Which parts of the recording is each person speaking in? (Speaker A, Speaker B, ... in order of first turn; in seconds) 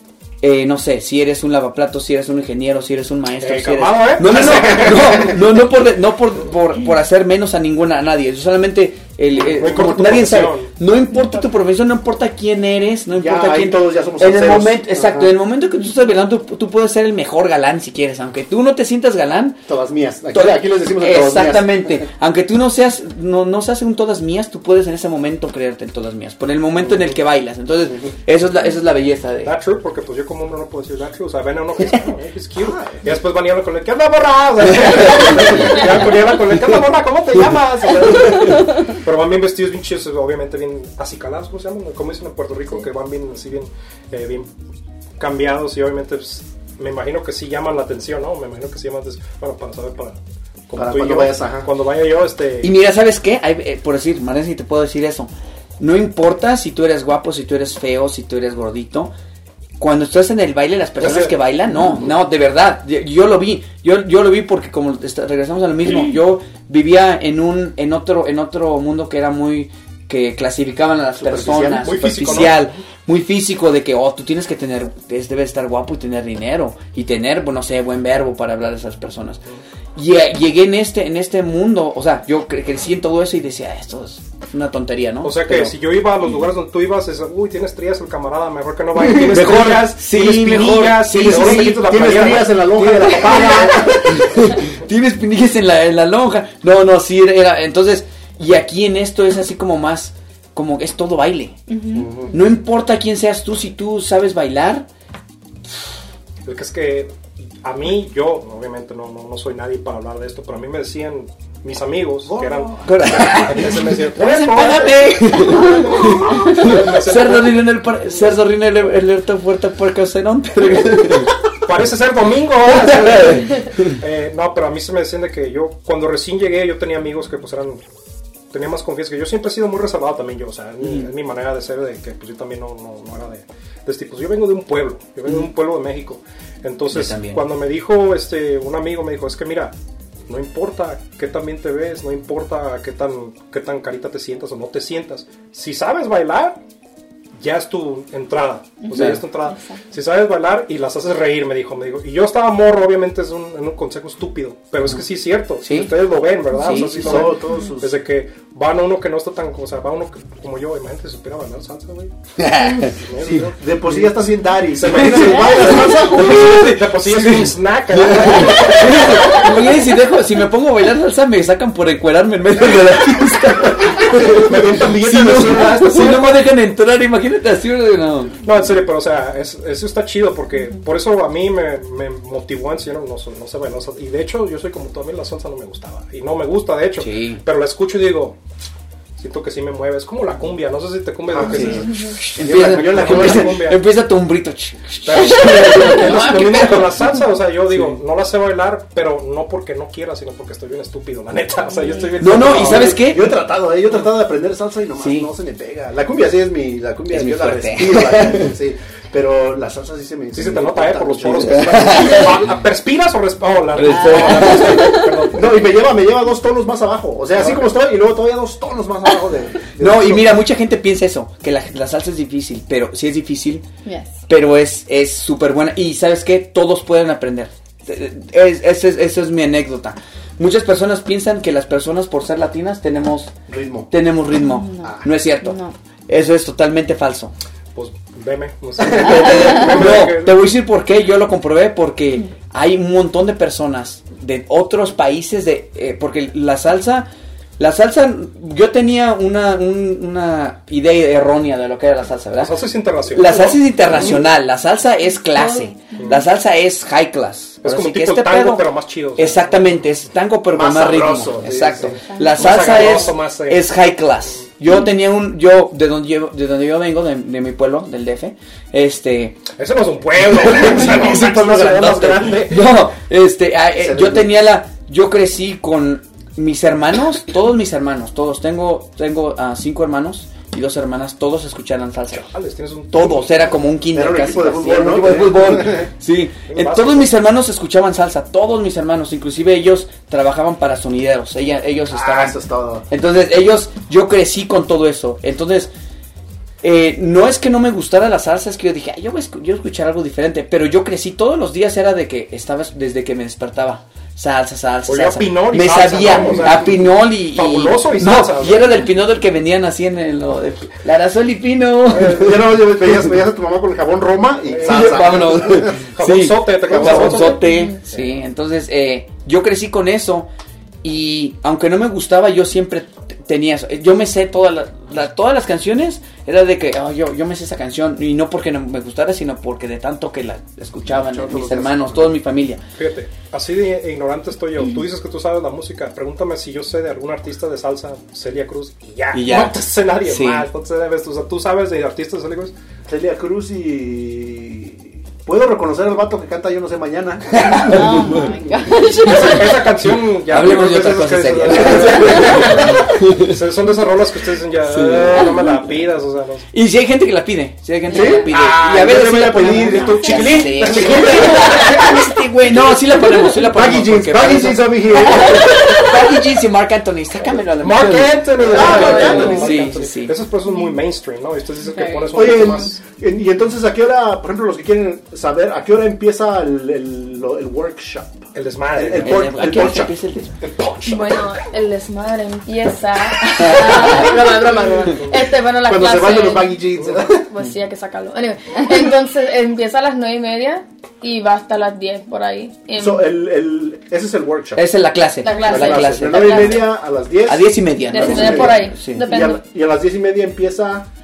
Speaker A: 0.4-19.6, 20.3-29.5, 52.6-59.1, 59.8-79.4, 80.0-85.7, 89.1-92.1, 93.3-101.6, 102.3-104.9, 112.9-121.3, 122.7-123.9, 136.9-137.4, 148.9-149.2, 155.6-155.9, 156.5-157.3, 162.4-163.0, 164.9-178.4, 187.0-187.4, 191.4-197.1, 202.2-203.3, 205.0-205.3, 207.1-208.5, 211.3-212.3, 213.7-215.2, 219.8-223.6, 224.3-233.3, 233.9-237.3, 238.9-252.6, 253.1-258.6, 259.2-269.5, 270.3-282.3, 282.9-292.3, 292.9-295.7, 296.6-312.5, 314.6-320.3, 320.8-332.6, 339.1-340.5, 347.4-348.3, 350.3-353.3, 354.6-355.7, 356.5-370.2, 378.9-380.4, 383.4-383.8, 394.6-396.7, 397.3-399.1
Speaker B: 3.4-5.5, 9.4-10.7, 29.4-44.5, 45.2-50.2, 50.7-52.7, 61.0-61.4, 71.6-72.7, 85.2-93.9, 106.5-118.3, 121.6-127.8, 128.5-139.8, 140.3-146.6, 147.4-162.1, 162.9-164.1, 164.7-169.9, 174.0-176.5, 178.4-188.4, 189.2-193.8, 195.1-203.0, 210.3-215.7, 237.8-240.4, 252.4-254.2, 256.0-256.2, 257.6-259.7, 261.8-263.7, 269.5-272.8, 282.1-283.4, 286.5-287.1, 304.9-308.8, 314.4-318.1, 332.8-342.5, 349.1-356.5, 358.2-361.8, 367.5-372.8, 378.3-381.3
Speaker C: 13.2-15.3, 19.7-22.1, 32.6-33.1, 50.8-51.7, 71.2-72.0, 91.2-93.9, 101.9-102.4, 112.2-113.6, 115.4-116.8, 157.0-158.0, 163.2-166.5, 191.3-193.7, 202.3-212.2, 215.3-220.4, 233.5-233.9, 234.8-235.1, 238.8-239.9, 253.2-254.2, 260.5-262.0, 273.8-274.4, 283.9-285.9, 291.9-292.9, 306.1-306.7, 311.9-315.9, 316.7-317.3, 330.9-332.2, 342.9-348.3, 352.1-352.6, 357.9-361.8, 362.5-362.8, 363.3-365.9, 368.4-369.6, 372.1-379.9, 383.6-385.0, 385.6-387.3, 392.8-394.7, 395.3-400.9
Speaker D: 101.7-102.1, 148.8-149.8, 213.9-214.9, 223.8-224.2, 234.4-235.8, 255.3-256.2, 262.1-262.5, 347.6-349.5, 365.1-365.9, 371.7-372.6
Speaker E: 317.5-317.8, 368.5-369.5, 380.8-393.0, 395.2-396.6, 397.9-399.4